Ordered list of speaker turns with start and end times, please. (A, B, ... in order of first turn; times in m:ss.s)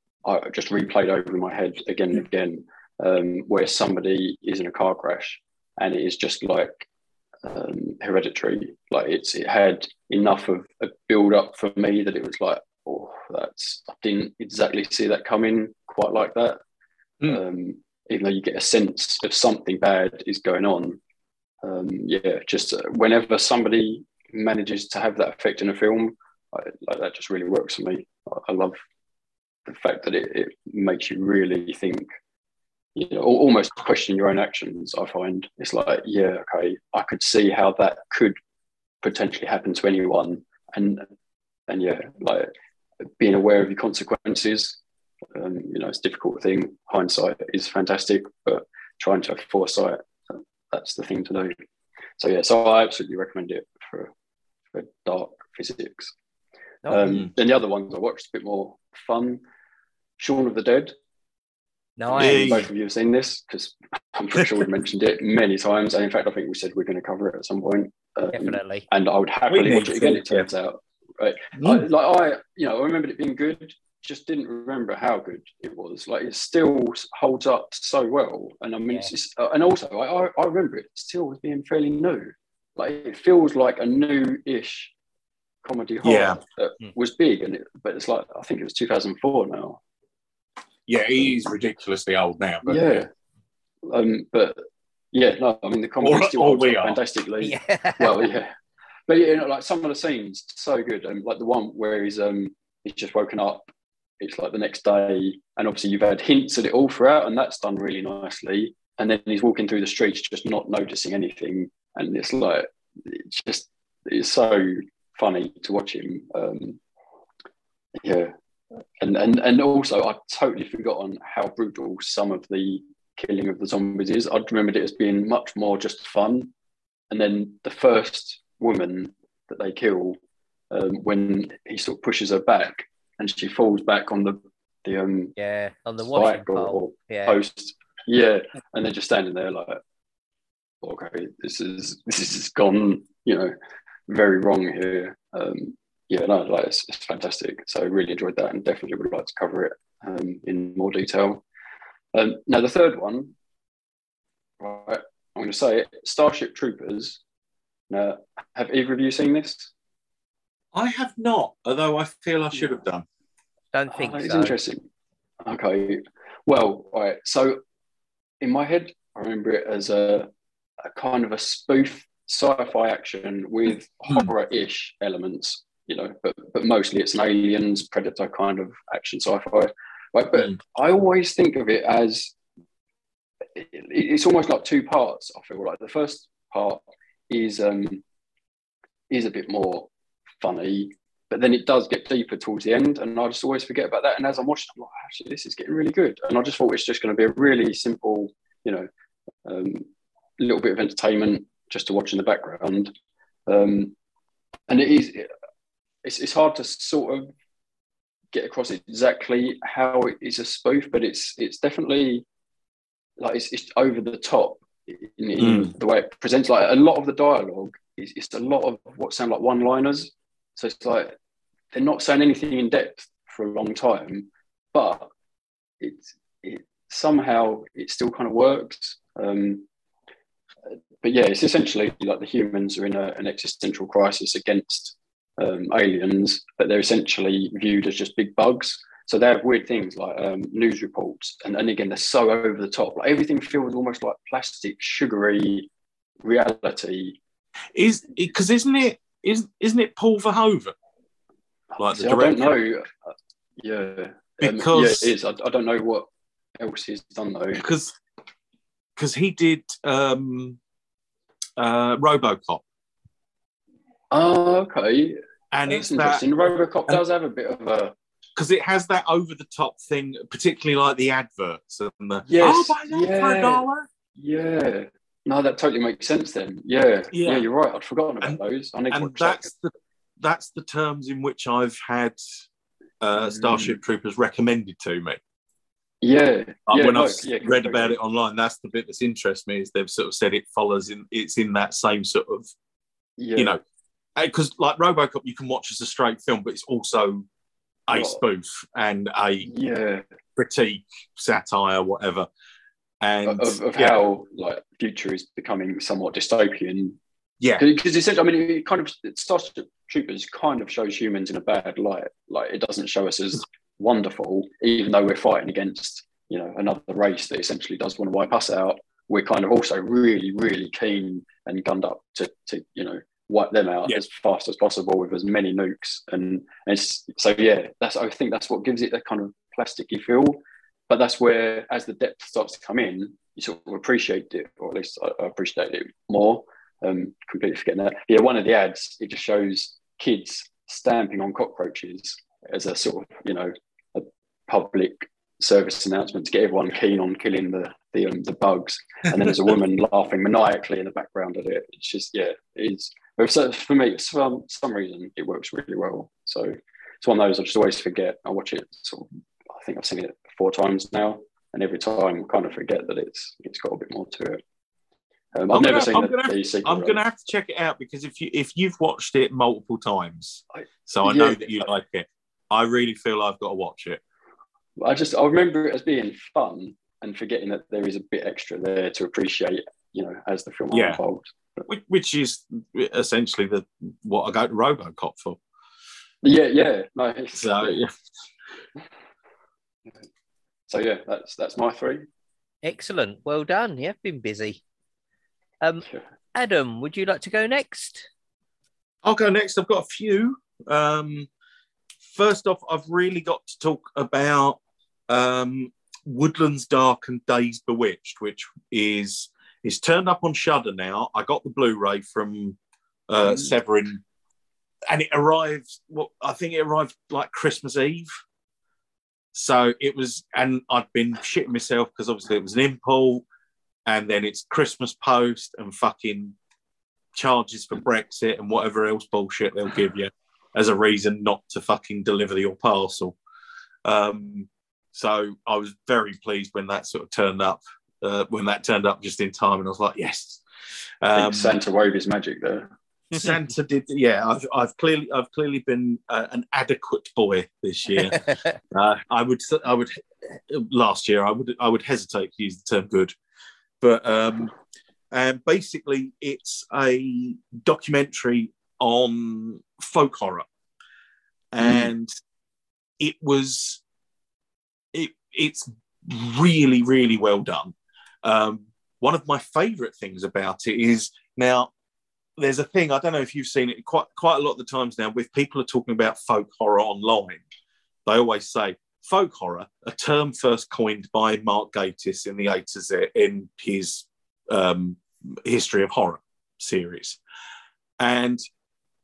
0:00.2-0:06.8 A
0:07.4-0:16.6 A
0:17.2-0:21.0 A
0:21.6-0:28.8 A
0:29.6-0:32.0 A
0:32.9-0:38.3 A
0:39.0-0:41.0 A
0:41.7-0:42.5 A
0:43.2-0:44.8 A
0:45.3-0:51.5 A
0:52.2-0:54.1 A
0:54.7-0:56.1 A
0:56.9-0:59.4 A
1:00.2-1:00.9 A
1:02.0-1:02.6 B
1:02.1-1:24.9 A
1:02.2-1:02.7 C
1:08.3-1:08.8 B
1:09.5-1:10.5 C
1:11.6-1:11.8 C
1:25.6-1:29.8 A
1:26.0-1:26.4 C
1:30.9-1:33.0 C
1:32.6-1:33.1 A
1:33.8-1:34.6 A
1:35.1-1:38.5 A
1:36.0-1:37.0 C
1:37.4-1:38.3 B
1:39.1-1:43.7 A
1:44.2-1:56.8 A
1:58.0-1:58.3 A
1:59.0-2:06.5 A
2:07.1-2:10.2 A
2:10.7-2:15.3 A
2:15.4-2:17.4 B
2:16.1-2:19.8 A
2:20.8-2:23.5 A
2:24.1-2:31.4 A
2:32.1-2:33.3 A
2:34.6-2:37.2 A
2:37.9-2:39.7 A
2:40.7-2:43.0 C
2:43.7-2:44.5 B
2:43.9-2:44.8 A
2:45.4-2:47.6 A
2:48.4-2:50.3 A
2:50.8-3:02.3 A
3:03.5-3:08.0 A
3:09.1-3:09.9 A
3:10.4-3:18.9 A
3:19.4-3:19.8 A
3:20.4-3:22.9 A
3:23.5-3:23.9 A
3:24.7-3:25.3 A
3:26.0-3:27.3 A
3:28.3-3:32.2 A
3:33.2-3:41.1 A
3:35.4-3:35.7 C
3:41.7-3:45.1 A
3:45.8-3:49.6 A
3:51.0-4:05.7 A
4:06.2-4:07.2 A
4:07.7-4:10.7 C
4:11.7-4:12.9 A
4:11.8-4:12.5 C
4:13.6-4:16.0 A
4:14.4-4:15.1 C
4:16.6-4:17.6 A
4:17.6-4:18.0 C
4:19.0-4:20.6 C
4:21.6-4:22.6 C
4:24.1-4:25.2 A
4:25.5-4:26.4 C
4:25.7-4:27.9 A
4:28.4-4:33.9 C
4:32.2-4:33.6 A
4:34.2-4:39.5 A
4:37.1-4:37.5 C
4:38.9-4:42.2 C
4:43.0-4:45.2 C
4:43.1-4:43.8 A
4:46.0-4:48.0 A
4:46.7-4:52.5 C
4:53.2-4:53.5 A
4:53.4-4:53.6 C
4:54.2-4:57.2 C
4:57.9-4:59.5 C
4:57.9-4:58.2 A
4:59.4-5:00.0 A
5:00.4-5:02.3 C
5:03.0-5:04.0 C
5:03.2-5:07.0 A
5:07.6-6:04.4 A
6:05.3-6:07.0 A
6:05.5-6:14.0 C
6:10.6-6:11.5 A
6:14.8-6:21.6 A
6:20.7-6:21.0 C
6:21.7-6:25.4 C
6:26.2-6:27.8 A
6:27.4-6:27.9 C
6:30.7-6:32.0 A
6:32.6-6:34.6 B
6:35.6-6:38.1 B
6:39.0-6:41.3 C
6:42.0-6:52.6 C
6:53.1-6:54.0 C
6:54.9-6:58.1 C
6:59.3-7:03.2 C
7:03.9-7:06.4 C
7:07.1-7:13.2 C
7:13.8-7:20.4 C
7:21.0-7:21.5 C
7:21.1-7:22.7 A
7:23.1-7:33.1 C
7:28.1-7:28.5 B
7:33.8-7:34.5 C
7:35.1-7:40.5 C
7:41.5-7:42.1 C
7:43.0-7:43.8 C
7:44.9-7:51.7 C
7:52.4-7:57.4 C
7:58.0-8:07.2 C
8:08.0-8:08.4 C